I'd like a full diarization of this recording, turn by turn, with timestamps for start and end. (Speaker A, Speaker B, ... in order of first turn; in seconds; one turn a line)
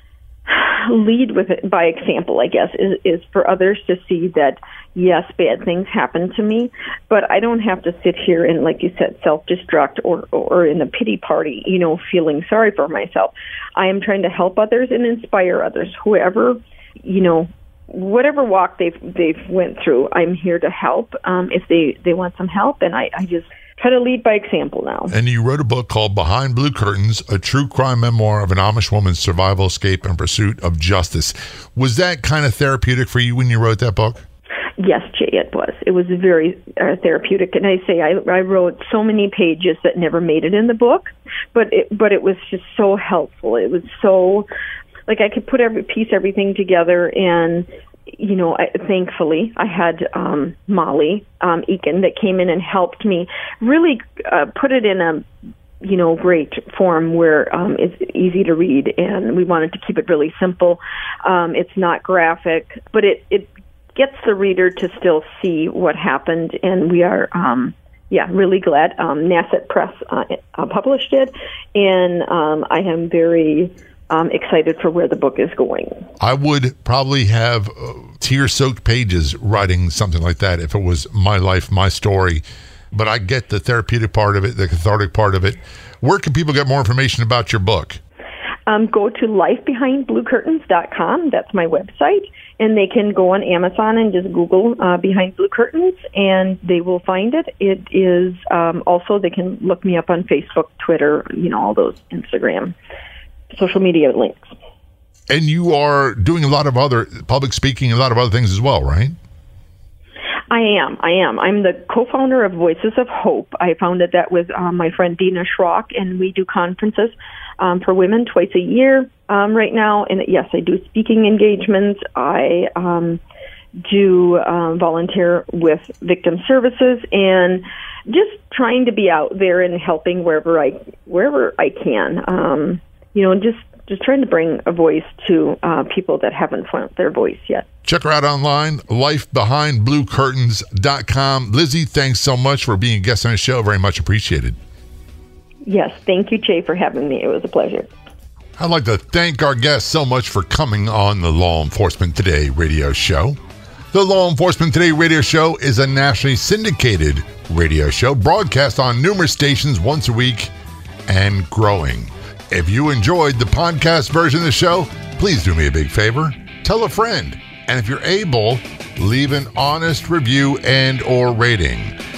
Speaker A: 0.5-25.1
Speaker B: 25.1-34.2
Speaker A: 34.8-44.5
Speaker A: 45.1-55.3
Speaker A: 55.8-76.1
Speaker B: 76.2-82.4
Speaker B: 82.9-88.0
Speaker A: 88.7-102.8
Speaker A: 103.5-104.5
Speaker B: 105.3-109.2
Speaker A: 110.5-123.2
Speaker A: 123.8-137.7
Speaker B: 137.8-144.6
Speaker A: 145.6-147.9
Speaker B: 148.6-153.4
Speaker B: 153.9-160.5
Speaker B: 161.1-172.0